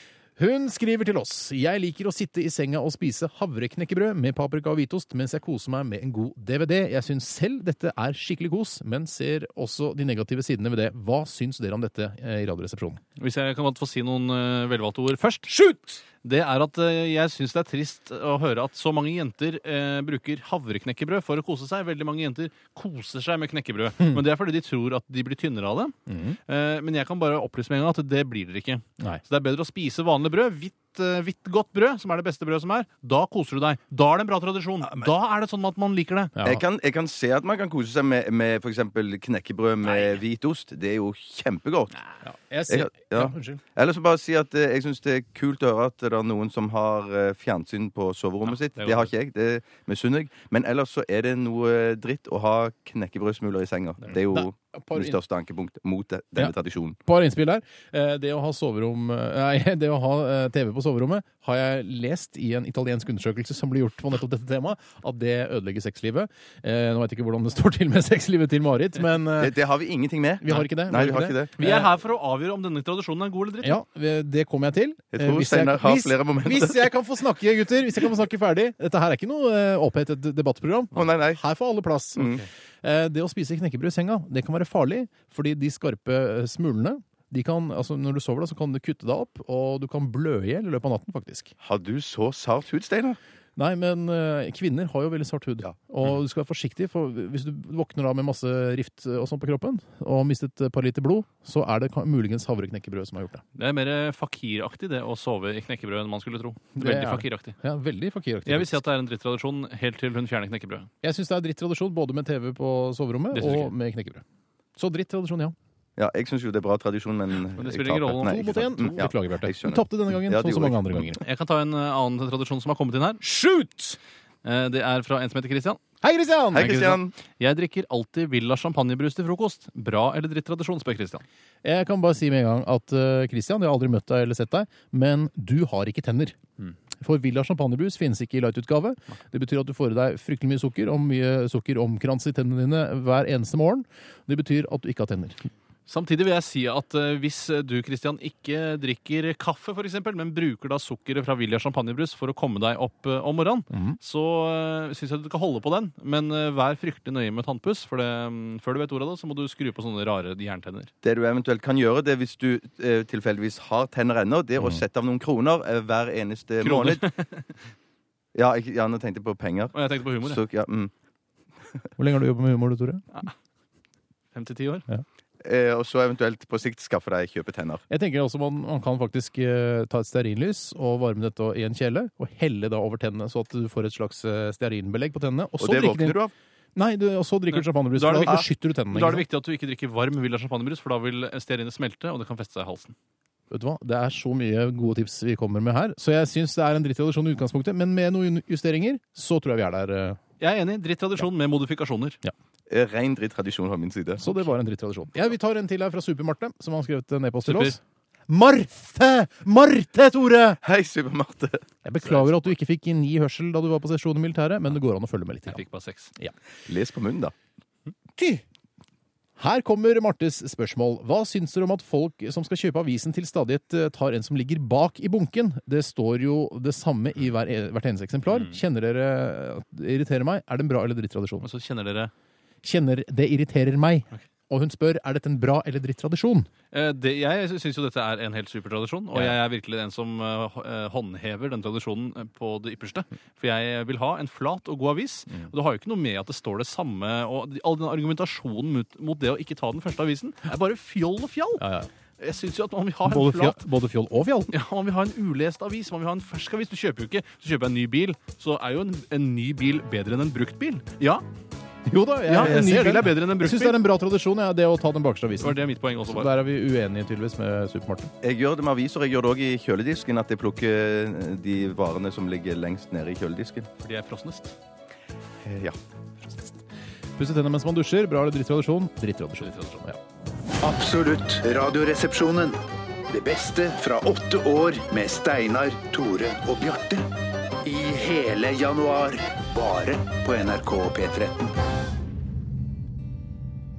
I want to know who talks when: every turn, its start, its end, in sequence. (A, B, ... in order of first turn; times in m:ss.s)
0:00.4-0:13.0 A
0:13.2-0:15.6 B
0:16.2-0:25.9 B
0:26.1-0:26.4 A
0:26.5-0:36.4 B
0:36.4-0:36.6 A
0:36.4-0:41.9 C
0:42.2-0:43.6 A
0:42.7-0:57.0 C
0:48.5-0:49.1 B
0:54.3-0:55.2 A
0:57.0-1:09.5 A
1:09.4-1:11.6 C
1:10.4-1:11.9 A
1:11.6-1:13.8 B
1:13.6-1:31.5 A
1:15.1-1:16.9 C
1:20.9-1:21.4 C
1:31.6-1:33.2 C
1:33.6-1:43.4 A
1:43.6-1:47.6 B
1:46.8-1:48.8 A
1:48.5-1:50.9 B
1:51.0-1:54.2 A
1:53.3-1:53.7 B
1:54.8-1:55.6 A
1:56.0-2:01.0 C
1:57.6-1:58.7 B
1:58.2-2:01.2 A
2:01.2-2:03.2 B
2:03.2-2:04.0 A
2:04.4-2:05.8 B
2:06.0-2:06.8 A
2:06.6-2:07.1 C
2:06.6-2:11.2 B
2:11.6-2:16.4 A
2:17.0-2:25.4 A
2:25.9-2:40.9 B
2:33.7-2:34.0 A
2:41.0-2:47.0 C
2:46.6-2:47.4 B
2:48.4-2:50.9 C
2:49.7-2:50.4 B
2:52.0-2:53.1 A
2:54.3-2:54.8 B
2:55.4-2:57.8 C
2:57.9-3:06.2 A
3:05.6-3:06.3 C
3:06.8-3:09.3 A
3:07.5-3:13.0 B
3:13.5-3:20.2 A
3:20.4-3:22.2 B
3:22.7-3:24.2 C
3:24.2-3:30.6 A
3:27.4-3:27.8 B
3:30.6-3:31.6 C
3:31.8-3:35.6 A
3:32.1-3:32.3 B
3:35.5-3:36.1 B
3:36.7-3:37.3 C
3:38.2-3:38.4 A
3:39.4-3:51.5 A
3:48.3-3:48.6 B
3:51.4-3:52.1 B
3:52.6-3:56.5 A
3:56.7-4:11.6 B
4:11.6-4:11.9 A
4:12.2-4:13.6 B
4:13.1-4:14.5 A
4:14.5-4:21.2 B
4:21.9-4:28.1 A
4:22.3-4:23.8 B
4:25.4-4:26.3 B
4:28.2-4:33.7 C
4:33.8-4:34.6 B
4:35.4-4:35.8 C
4:37.2-4:40.0 A
4:39.4-4:39.8 B
4:40.6-4:47.1 D
4:47.6-4:51.5 D